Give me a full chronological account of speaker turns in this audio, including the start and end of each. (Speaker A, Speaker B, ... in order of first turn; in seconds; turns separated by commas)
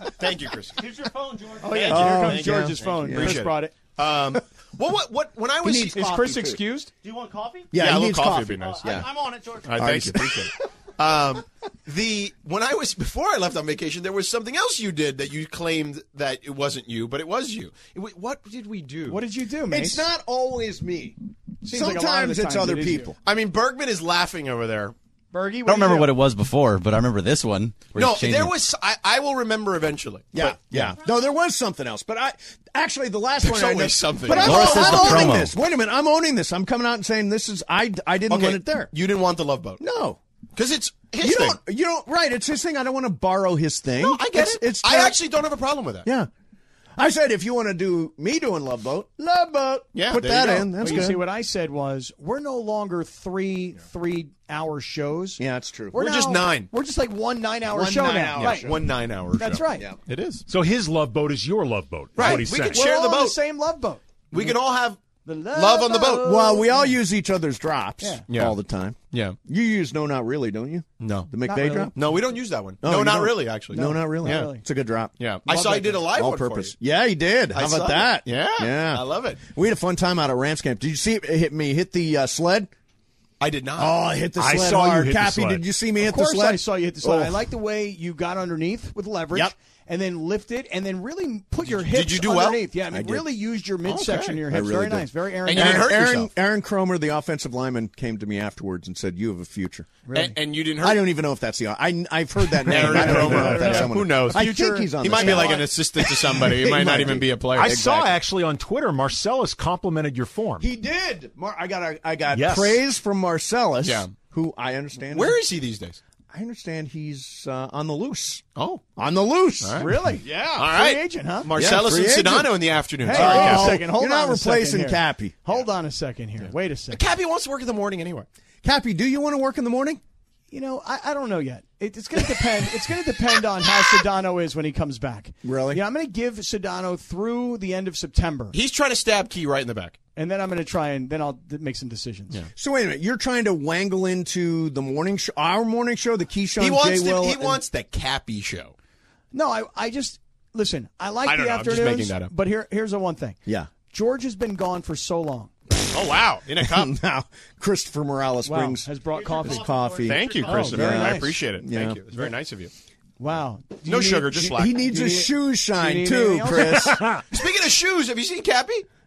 Speaker A: 0.2-0.8, Speaker B: 0.8-3.1, Speaker C: 1.6-3.7, Speaker A: 1.8-2.2, Speaker D: 1.8-3.5, Speaker A: 3.0-6.1, Speaker D: 5.6-6.6, Speaker C: 5.6-6.9, Speaker B: 7.0-7.8, Speaker D: 7.7-9.1, Speaker A: 7.7-8.9, Speaker B: 8.5-9.8, Speaker A: 9.7-19.2, Speaker D: 9.7-10.5, Speaker C: 19.1-20.1, Speaker D: 19.7-23.2, Speaker C: 21.6-23.1, Speaker A: 23.2-24.9, Speaker C: 25.3-26.1, Speaker E: 25.6-28.6, Speaker A: 27.9-30.9, Speaker D: 30.3-38.9, Speaker A: 33.4-35.4, Speaker E: 34.3-35.5, Speaker A: 38.3-39.8, Speaker D: 39.8-40.2, Speaker A: 40.5-41.6, Speaker D: 41.2-45.2, Speaker A: 44.0-46.1, Speaker D: 46.0-46.3, Speaker D: 47.0-51.2, Speaker A: 49.9-51.1, Speaker C: 50.1-55.4, Speaker D: 55.4-56.1, Speaker C: 55.9-58.7, Speaker A: 56.0-56.7, Speaker D: 57.7-58.9, Speaker A: 58.4-60.4, Speaker C: 59.3-59.9, Speaker F: 60.5-62.8, Speaker A: 62.1-63.4, Speaker C: 62.2-64.5, Speaker A: 64.3-65.0, Speaker C: 65.2-66.9, Speaker A: 65.5-66.4, Speaker D: 66.2-72.2, Speaker A: 68.3-68.5, Speaker A: 71.0-71.3, Speaker C: 71.4-71.9, Speaker A: 71.9-74.5, Speaker D: 72.8-75.1, Speaker C: 73.7-74.6, Speaker A: 75.2-76.7, Speaker C: 75.5-76.0, Speaker D: 75.9-82.7, Speaker A: 77.5-79.4, Speaker A: 83.4-84.0, Speaker D: 83.8-87.4, Speaker F: 84.4-85.6, Speaker C: 86.0-96.0, Speaker A: 91.7-92.6, Speaker D: 92.9-93.2, Speaker A: 93.8-94.4, Speaker D: 94.5-99.9, Speaker A: 95.4-96.3, Speaker C: 100.0-100.3, Speaker A: 100.1-101.1, Speaker D: 100.8-108.1, Speaker A: 102.6-107.8, Speaker C: 102.7-105.7, Speaker F: 107.5-110.7, Speaker D: 110.6-115.4, Speaker F: 112.3-112.8, Speaker A: 113.8-114.1, Speaker A: 115.1-116.0, Speaker D: 116.3-118.4, Speaker A: 118.5-118.8, Speaker D: 119.0-120.7, Speaker A: 119.6-119.9, Speaker C: 119.8-121.5, Speaker A: 120.5-123.8, Speaker D: 121.5-125.4, Speaker C: 123.0-127.0, Speaker A: 126.9-128.3, Speaker D: 128.6-130.0, Speaker C: 130.5-138.6, Speaker D: 135.4-135.8, Speaker A: 138.5-140.0, Speaker C: 140.1-142.4, Speaker D: 142.6-147.6, Speaker A: 146.6-148.7, Speaker C: 149.3-153.4, Speaker A: 151.2-152.3, Speaker C: 153.9-155.5, Speaker A: 155.9-156.9, Speaker D: 156.6-162.0, Speaker C: 158.4-159.7, Speaker B: 159.2-160.4, Speaker A: 160.0-162.7, Speaker C: 160.4-161.4, Speaker C: 163.2-167.0, Speaker A: 163.8-164.8, Speaker D: 164.3-167.1, Speaker F: 166.7-167.2, Speaker A: 167.3-168.8